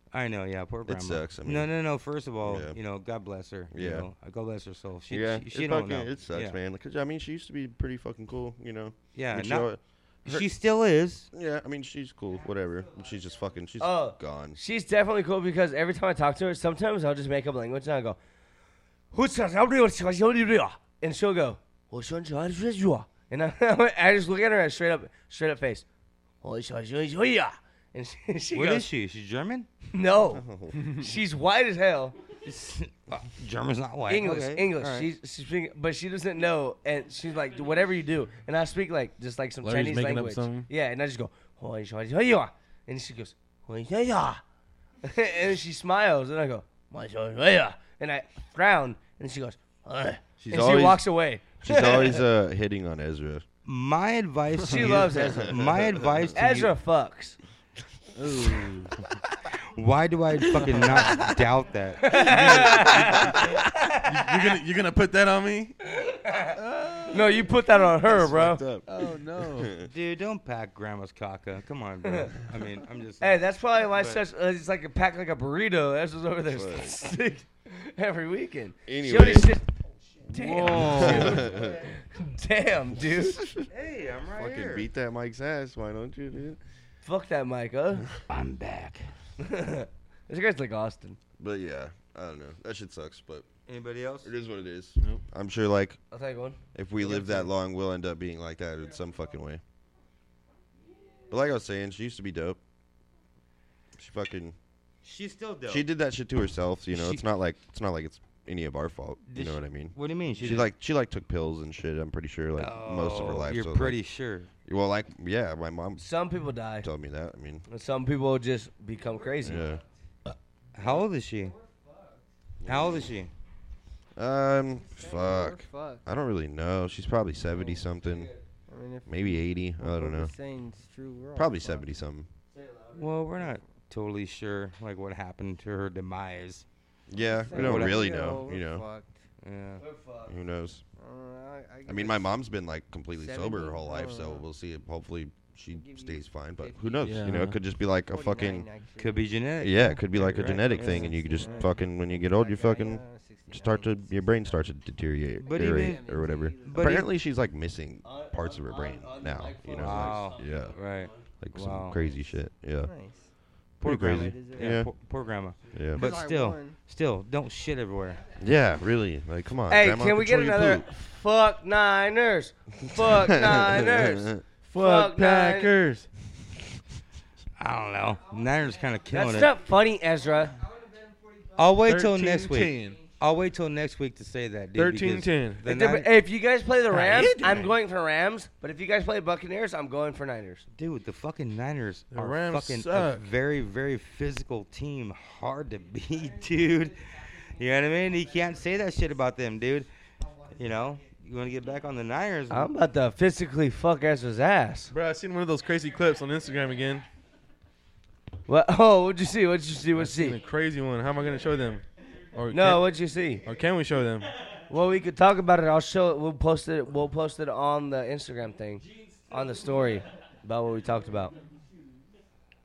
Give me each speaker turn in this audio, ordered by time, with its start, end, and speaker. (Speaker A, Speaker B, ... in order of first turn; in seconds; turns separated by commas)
Speaker A: 0.1-6.6, Speaker B: 0.9-1.7, Speaker B: 2.4-2.8, Speaker B: 3.7-4.1, Speaker B: 5.1-10.5, Speaker A: 9.1-9.7, Speaker A: 10.3-11.3, Speaker B: 11.3-14.6, Speaker C: 12.4-13.5, Speaker D: 13.8-18.2, Speaker D: 19.1-25.9, Speaker D: 26.4-28.9, Speaker A: 28.5-29.7, Speaker D: 29.9-32.2, Speaker B: 30.2-31.0, Speaker A: 32.4-35.1, Speaker D: 34.1-44.4, Speaker E: 39.6-40.7, Speaker D: 45.0-52.2, Speaker B: 50.4-51.0, Speaker B: 51.6-53.5, Speaker A: 53.6-56.7, Speaker D: 54.6-55.6, Speaker B: 55.1-56.2, Speaker D: 56.4-57.4, Speaker E: 58.2-59.0, Speaker A: 59.7-62.8, Speaker E: 60.5-61.2, Speaker D: 62.0-64.6, Speaker E: 62.1-65.8, Speaker D: 65.8-66.6, Speaker E: 66.6-67.3, Speaker D: 67.1-68.7, Speaker B: 68.0-68.9, Speaker E: 68.9-69.8, Speaker B: 69.4-69.9, Speaker A: 69.8-74.2, Speaker D: 72.0-72.3, Speaker D: 73.2-79.7, Speaker B: 76.5-77.0, Speaker B: 78.9-79.5, Speaker D: 80.3-83.4, Speaker A: 80.3-81.5, Speaker B: 80.7-81.9, Speaker B: 83.4-83.7, Speaker A: 83.7-84.9, Speaker B: 84.3-86.6, Speaker D: 87.0-88.1, Speaker A: 88.3-89.1, Speaker D: 89.4-91.2, Speaker B: 91.4-93.5, Speaker A: 93.7-94.3, Speaker B: 94.2-96.0, Speaker D: 96.1-97.3, Speaker B: 96.7-99.6, Speaker B: 101.3-102.6, Speaker B: 104.0-104.6, Speaker A: 105.0-105.9, Speaker B: 105.7-114.0, Speaker A: 106.9-107.3, Speaker A: 109.3-110.7, Speaker A: 112.6-114.5, Speaker B: 114.7-116.0, Speaker D: 116.0-116.9, Speaker B: 116.8-117.6, Speaker D: 117.7-119.7, Speaker C: 119.1-119.9, Speaker B: 119.4-119.8, Speaker A: 120.8-121.5, Speaker C: 120.8-122.3, Speaker B: 122.6-123.1, Speaker A: 122.7-123.3, Speaker B: 124.2-128.3, Speaker C: 124.8-126.0, Speaker D: 128.0-128.4, Speaker C: 128.7-131.9, Speaker B: 129.1-130.3, Speaker B: 131.3-132.3, Speaker D: 132.5-133.2, Speaker A: 132.9-136.7, Speaker B: 137.1-138.9, Speaker C: 137.2-139.2, Speaker A: 137.5-138.3, Speaker A: 139.4-139.8, Speaker D: 139.8-140.3, Speaker B: 140.3-140.8, Speaker C: 141.0-142.4, Speaker B: 141.8-148.7, Speaker C: 143.1-144.4, Speaker C: 145.7-147.4, Speaker E: 147.0-147.6, Speaker C: 148.1-149.4, Speaker A: 149.0-151.1, Speaker B: 149.6-160.8, Speaker C: 150.4-154.7, Speaker E: 150.7-151.7, Speaker A: 155.4-156.1, Speaker C: 155.4-157.1, Speaker A: 156.6-157.1, Speaker C: 158.2-160.3, Speaker A: 159.7-162.0, Speaker B: 161.4-162.9, Speaker C: 162.8-163.3, Speaker B: 163.8-164.9, Speaker A: 163.8-168.2, Speaker C: 163.9-164.8, Speaker C: 165.7-166.8, Speaker B: 165.7-166.1, Speaker C: 167.9-168.8, Speaker B: 168.4-170.8, Speaker D: 169.7-175.7, Speaker B: 173.0-174.4, Speaker E: 174.7-176.1, Speaker A: 177.6-179.5, Speaker C: 177.9-181.9, Speaker D: 179.1-180.6, Speaker A: 181.6-186.1, Speaker E: 181.8-183.0, Speaker C: 182.5-183.4, Speaker E: 184.8-185.6, Speaker D: 185.7-190.7, Speaker E: 186.9-187.7, Speaker A: 190.7-199.9, Speaker E: 192.1-193.2, Speaker C: 195.8-199.6, Speaker C: 200.2-201.9, Speaker A: 200.5-202.7, Speaker D: 202.5-204.9, Speaker E: 204.9-207.1, Speaker D: 208.5-210.4, Speaker E: 209.9-212.8, Speaker D: 212.5-213.4, Speaker E: 213.4-214.3, Speaker D: 214.7-221.4, Speaker C: 219.5-220.0, Speaker C: 220.9-222.2